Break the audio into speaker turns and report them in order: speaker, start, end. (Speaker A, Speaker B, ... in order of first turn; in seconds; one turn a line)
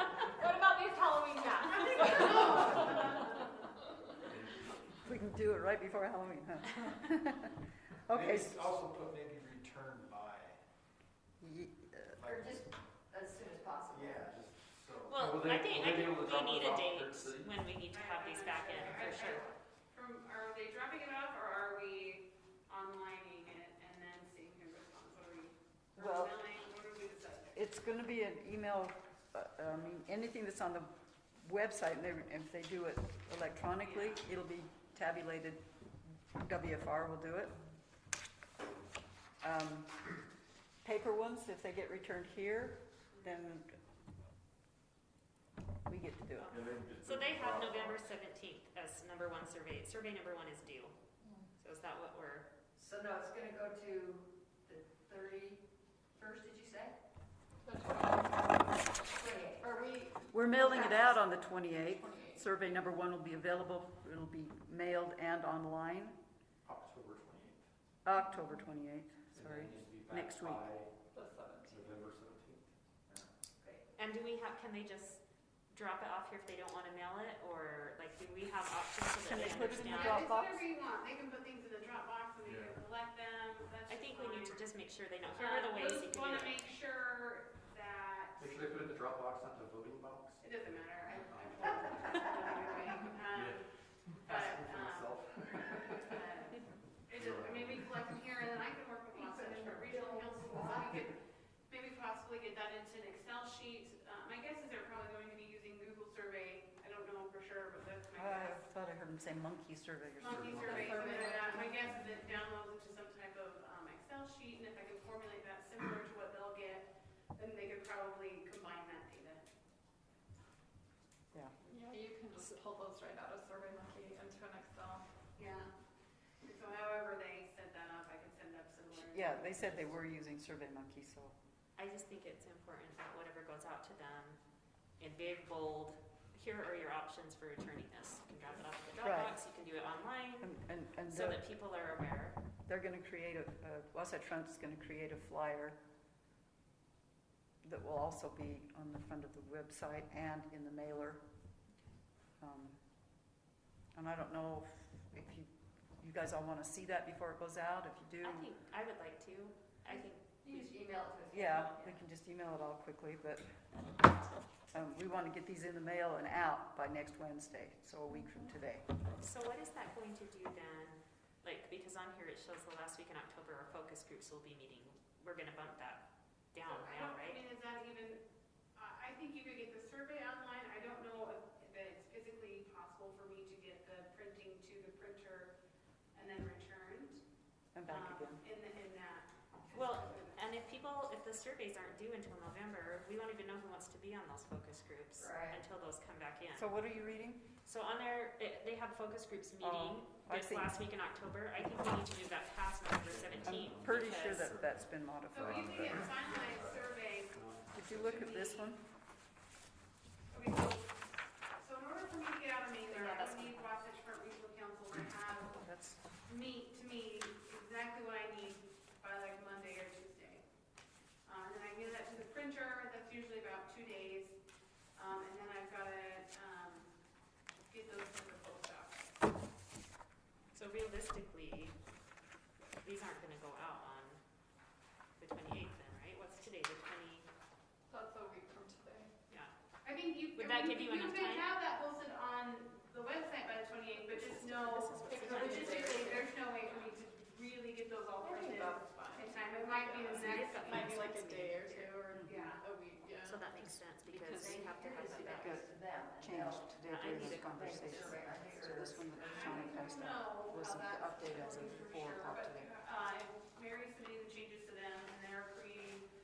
Speaker A: 0.4-3.2
Speaker B: 1.6-3.7
Speaker C: 2.0-2.5
Speaker D: 5.0-8.6
Speaker E: 8.1-10.6
Speaker D: 11.4-12.2
Speaker E: 12.2-12.6
Speaker C: 12.3-14.3
Speaker E: 13.9-17.5
Speaker F: 15.1-19.5
Speaker B: 17.9-27.6
Speaker D: 26.0-26.4
Speaker D: 27.6-35.6
Speaker B: 33.8-34.2
Speaker D: 36.3-37.5
Speaker D: 39.4-40.2
Speaker D: 40.8-43.8
Speaker D: 45.9-46.6
Speaker F: 46.4-50.9
Speaker E: 46.6-48.0
Speaker F: 51.6-52.5
Speaker C: 52.8-55.6
Speaker C: 56.2-57.0
Speaker A: 57.6-58.9
Speaker C: 59.1-59.7
Speaker A: 59.6-62.5
Speaker D: 60.3-66.2
Speaker C: 60.6-60.9
Speaker E: 66.6-67.6
Speaker D: 68.0-70.6
Speaker E: 69.3-70.9
Speaker A: 71.1-71.9
Speaker E: 71.7-73.3
Speaker F: 74.0-80.3
Speaker D: 79.2-80.7
Speaker B: 79.6-84.6
Speaker F: 83.9-86.6
Speaker B: 85.3-88.5
Speaker E: 88.4-90.4
Speaker B: 90.4-93.7
Speaker B: 94.2-101.2
Speaker E: 94.2-96.2
Speaker E: 97.2-97.6
Speaker C: 99.1-101.1
Speaker B: 101.7-108.7
Speaker D: 108.1-111.4
Speaker B: 110.2-119.5
Speaker A: 110.7-112.1
Speaker A: 121.7-125.1
Speaker B: 125.4-125.7
Speaker B: 126.4-130.0
Speaker D: 129.0-131.3
Speaker F: 131.8-134.4
Speaker F: 135.0-140.5
Speaker D: 139.0-139.3
Speaker D: 140.4-141.5
Speaker F: 141.1-142.4
Speaker D: 142.7-145.8
Speaker D: 147.6-151.2
Speaker D: 152.4-152.8
Speaker D: 153.9-158.5
Speaker F: 158.2-160.8
Speaker C: 160.4-162.0
Speaker D: 161.3-163.8
Speaker D: 164.7-168.9
Speaker F: 169.2-177.4
Speaker B: 176.6-178.2
Speaker B: 178.8-185.6
Speaker B: 186.2-187.2
Speaker D: 187.8-188.4
Speaker B: 187.9-190.4
Speaker F: 189.7-196.7
Speaker C: 195.2-195.6
Speaker D: 196.5-197.5
Speaker F: 197.6-204.6
Speaker D: 199.6-200.7
Speaker E: 203.1-203.5
Speaker D: 203.4-206.1
Speaker B: 205.3-207.4
Speaker E: 205.9-206.9
Speaker E: 207.4-208.1
Speaker D: 207.7-208.8
Speaker B: 208.1-208.7
Speaker B: 210.3-215.7
Speaker F: 212.9-213.8
Speaker D: 215.5-216.0
Speaker B: 216.3-220.4
Speaker B: 221.3-224.4
Speaker B: 225.0-226.9
Speaker B: 227.7-229.2
Speaker F: 230.5-231.8
Speaker F: 232.8-234.2
Speaker F: 235.2-237.3
Speaker A: 237.9-239.1
Speaker B: 239.8-251.1
Speaker F: 240.3-241.5
Speaker F: 244.1-246.2
Speaker A: 245.0-246.3
Speaker A: 248.2-253.5
Speaker F: 250.1-251.9
Speaker B: 252.1-252.6
Speaker F: 253.2-255.6
Speaker D: 253.7-262.8
Speaker C: 254.3-260.0
Speaker F: 256.9-258.2
Speaker B: 259.2-266.1